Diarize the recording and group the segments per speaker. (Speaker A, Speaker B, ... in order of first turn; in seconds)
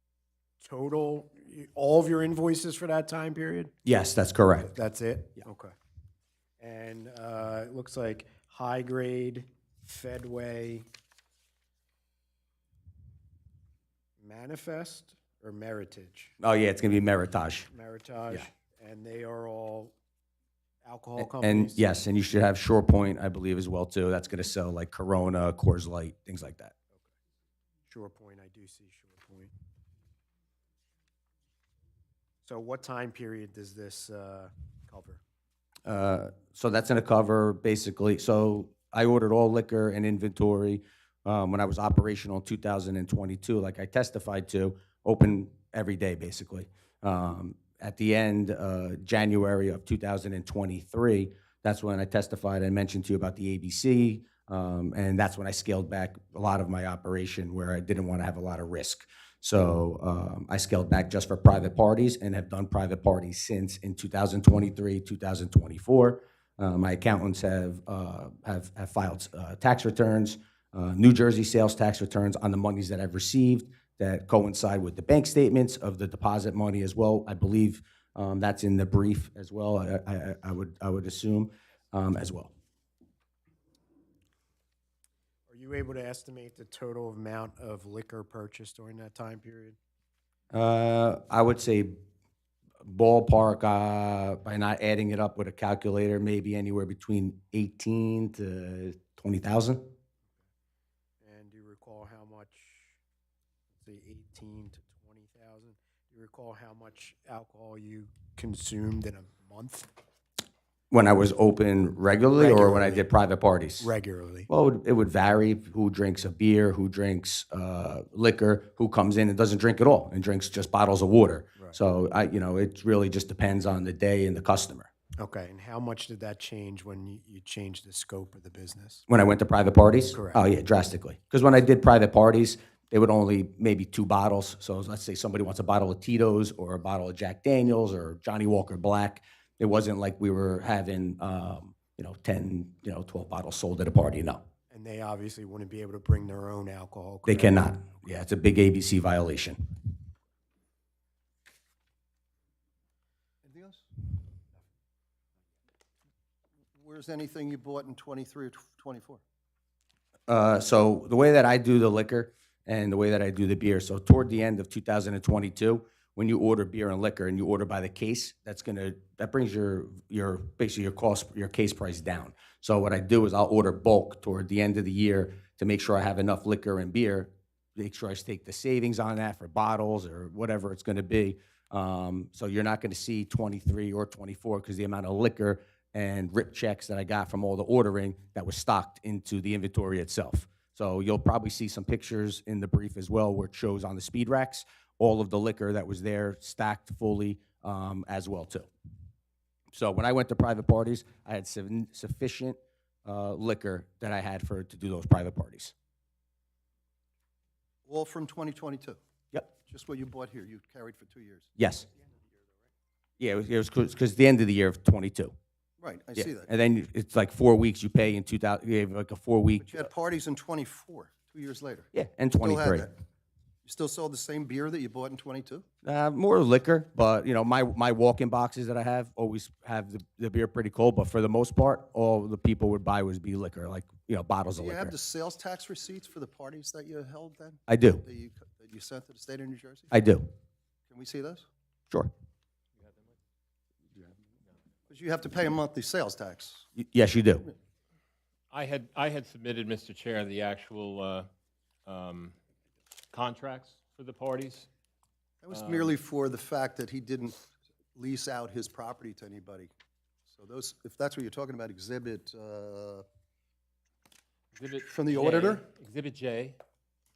Speaker A: 0.6-3.7, 4.6-5.7, 6.6-10.9, 14.2-16.3, 17.7-19.9, 20.8-21.8, 27.9-29.5, 32.4-35.2, 85.5-89.8, 101.2-103.0, 103.7-109.9, 112.4-113.1, 113.8-114.5, 125.2-129.1, 130.1-130.4, 144.7-148.0
Speaker B: 3.9-4.7, 16.4-17.7, 21.2-26.7, 35.9-82.5, 90.5-92.0, 92.8-99.9, 110.9-113.9, 114.5-124.9, 129.1-144.4, 147.3-149.8, 160.3-198.7, 199.7-205.7, 211.6-211.9, 213.2-215.3, 216.2-219.9, 221.9-222.9, 225.8-234.9, 237.7-238.1, 239.9-240.3, 246.8-247.5
Speaker C: 153.4-153.8, 156.8-159.2, 207.9-209.0, 209.6-211.5, 215.8-216.5, 219.6-222.9, 223.7-225.7, 234.6-239.9, 240.9-241.5, 244.9-246.7, 255.4-257.4, 257.9-259.7, 260.3-263.1, 264.8-265.6
Speaker D: 242.8-243.2, 248.5-251.3, 251.9-252.3, 253.1-254.7, 255.5-255.9, 264.6-266.6